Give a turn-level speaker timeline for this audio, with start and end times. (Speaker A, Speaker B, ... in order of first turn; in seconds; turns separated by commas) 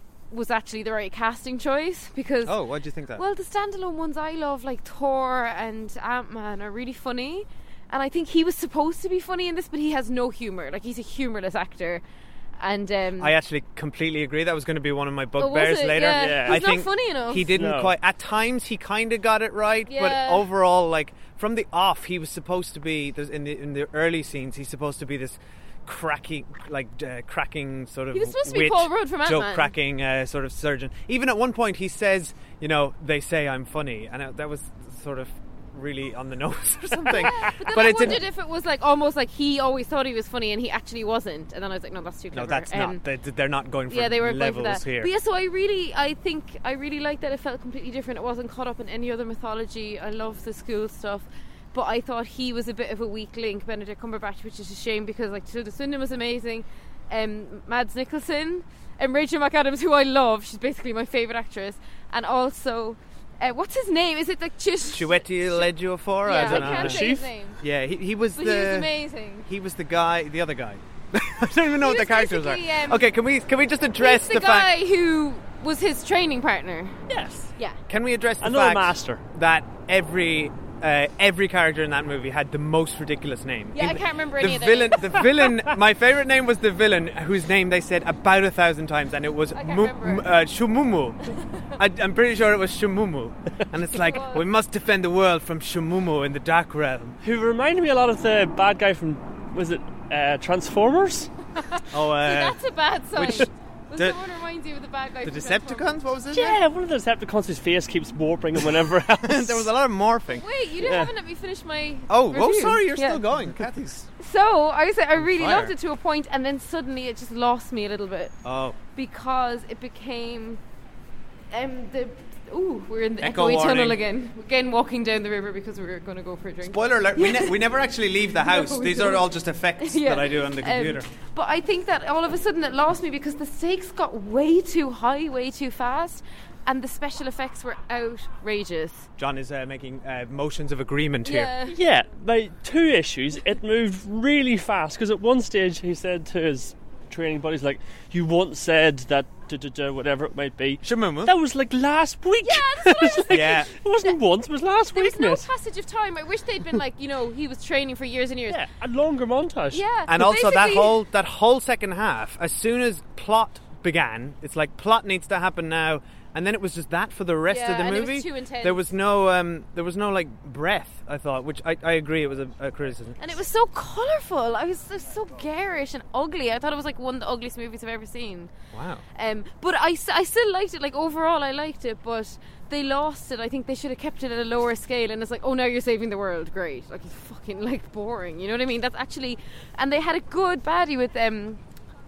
Speaker A: 0.3-2.6, Speaker B: 2.5-3.2, Speaker A: 3.2-12.0, Speaker A: 12.6-13.3, Speaker B: 13.2-38.3, Speaker A: 15.4-17.6, Speaker C: 16.2-16.6, Speaker C: 17.6-17.9, Speaker A: 19.9-20.5, Speaker A: 28.1-29.7, Speaker A: 37.0-43.0, Speaker B: 42.3-45.1, Speaker A: 43.9-65.7, Speaker B: 64.9-67.1, Speaker A: 66.2-67.6, Speaker C: 66.3-67.3, Speaker B: 67.6-68.9, Speaker A: 68.4-69.5, Speaker B: 69.5-74.7, Speaker A: 71.8-73.0, Speaker A: 74.0-77.0, Speaker C: 77.1-77.5, Speaker B: 77.9-97.2, Speaker C: 78.4-79.2, Speaker A: 83.7-85.4, Speaker A: 89.5-90.3, Speaker A: 94.0-94.5, Speaker C: 97.2-101.3, Speaker A: 101.7-106.0, Speaker B: 101.9-102.6, Speaker B: 103.2-104.2, Speaker B: 105.2-106.6, Speaker C: 106.3-109.7, Speaker B: 109.2-110.5, Speaker A: 110.3-113.2, Speaker C: 110.8-111.1, Speaker B: 112.1-114.1, Speaker A: 114.2-118.3, Speaker B: 115.2-115.7, Speaker B: 118.4-118.8, Speaker A: 119.0-120.6, Speaker A: 121.5-127.6, Speaker B: 123.2-124.0, Speaker B: 126.7-131.1, Speaker A: 128.4-139.1, Speaker B: 139.2-141.5, Speaker A: 141.2-141.8, Speaker C: 141.7-155.5, Speaker B: 150.8-151.3, Speaker A: 152.4-153.4, Speaker B: 153.3-153.7, Speaker A: 154.9-158.6, Speaker C: 158.5-159.8, Speaker A: 159.7-161.0, Speaker B: 160.1-173.4, Speaker A: 167.5-168.8, Speaker A: 173.2-178.5, Speaker B: 178.7-179.0, Speaker A: 179.2-191.6